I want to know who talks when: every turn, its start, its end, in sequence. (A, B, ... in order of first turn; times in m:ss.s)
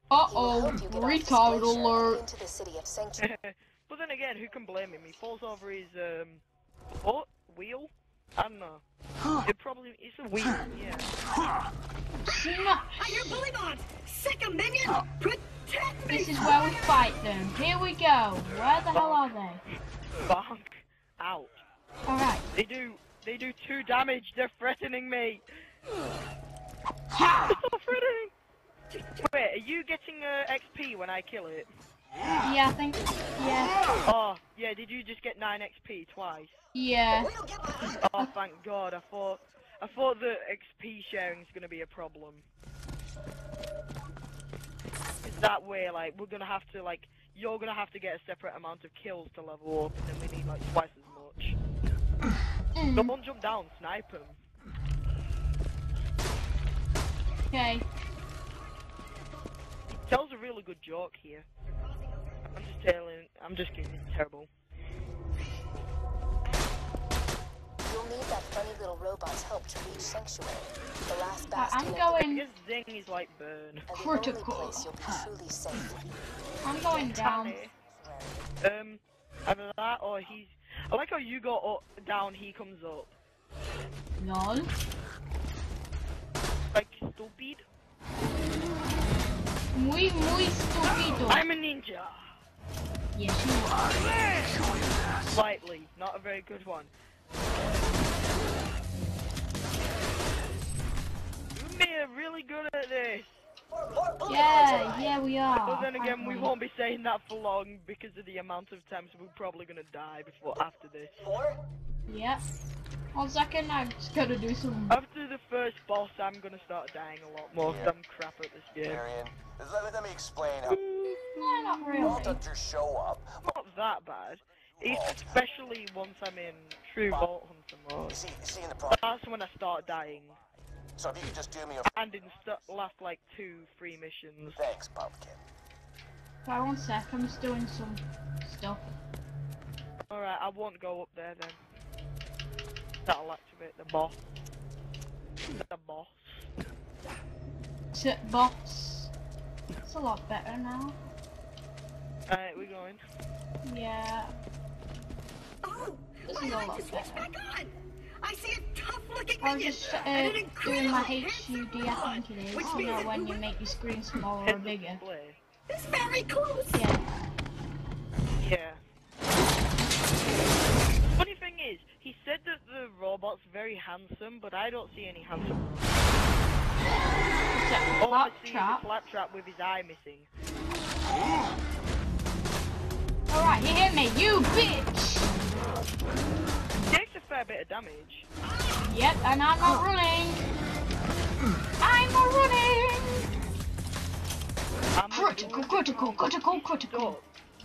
0:00.1-0:02.2 A
0:00.3-0:03.2 B
0:03.2-0:06.4 C
0:07.0-0:08.8 C
0:09.4-0:11.2 C
0:12.2-0:13.4 A
0:13.0-0:16.5 D
0:16.1-0:19.6 A
0:18.9-0:19.3 C
0:20.2-0:21.5 C
0:22.1-0:22.4 A
0:22.5-0:25.4 C
0:27.1-0:27.6 A
0:27.4-0:28.3 C
0:28.9-0:29.3 D
0:29.2-0:31.7 C
0:32.4-0:33.7 A
0:34.0-0:36.5 C
0:36.7-0:37.3 A
0:37.2-0:38.1 D
0:38.0-0:42.4 C
0:45.2-0:51.6 C
0:52.8-0:53.1 A
0:52.9-0:54.4 C
0:57.5-0:57.8 A
0:58.0-0:59.2 D
1:00.0-1:01.4 C
1:01.8-1:02.4 D
1:02.5-1:04.5 C
1:07.8-1:12.2 B
1:11.6-1:12.4 A
1:12.2-1:13.9 C
1:13.9-1:16.0 B
1:13.9-1:14.9 A
1:16.6-1:17.6 A
1:16.9-1:17.7 C
1:17.9-1:18.4 B
1:18.6-1:23.1 C
1:24.2-1:24.7 A
1:26.7-1:27.6 C
1:29.7-1:31.4 A
1:31.2-1:32.2 C
1:33.1-1:34.0 A
1:35.3-1:36.9 C
1:41.5-1:43.3 C
1:43.7-1:45.1 D
1:44.2-1:46.5 A
1:45.6-1:51.2 C
1:51.2-1:51.6 D
1:52.1-1:52.4 A
1:53.1-1:55.0 A
1:54.9-1:59.0 C
1:57.6-1:57.9 E
1:58.8-2:00.8 E
2:01.2-2:02.4 A
2:02.0-2:03.3 E
2:03.4-2:08.2 C
2:04.8-2:05.3 E
2:08.1-2:09.1 E
2:08.9-2:10.4 C
2:11.0-2:12.1 E
2:11.9-2:14.6 C
2:14.6-2:15.4 E
2:16.4-2:18.8 A
2:20.1-2:21.6 C
2:23.0-2:24.2 C
2:25.5-2:26.4 C
2:27.9-2:29.1 A
2:29.8-2:31.0 A
2:32.3-2:33.0 C
2:33.6-2:34.3 A
2:35.6-2:43.3 D
2:36.3-2:37.3 A
2:39.4-2:45.0 A
2:44.4-2:45.4 C
2:45.7-2:46.8 D
2:46.7-2:47.0 A
2:48.4-2:48.8 C
2:51.1-2:56.2 C
2:57.5-2:58.8 A
2:58.0-3:00.3 C
3:03.3-3:05.3 A
3:06.8-3:08.3 C
3:08.5-3:08.8 D
3:08.8-3:10.5 A
3:11.8-3:13.3 A
3:15.0-3:17.2 C
3:15.1-3:17.1 A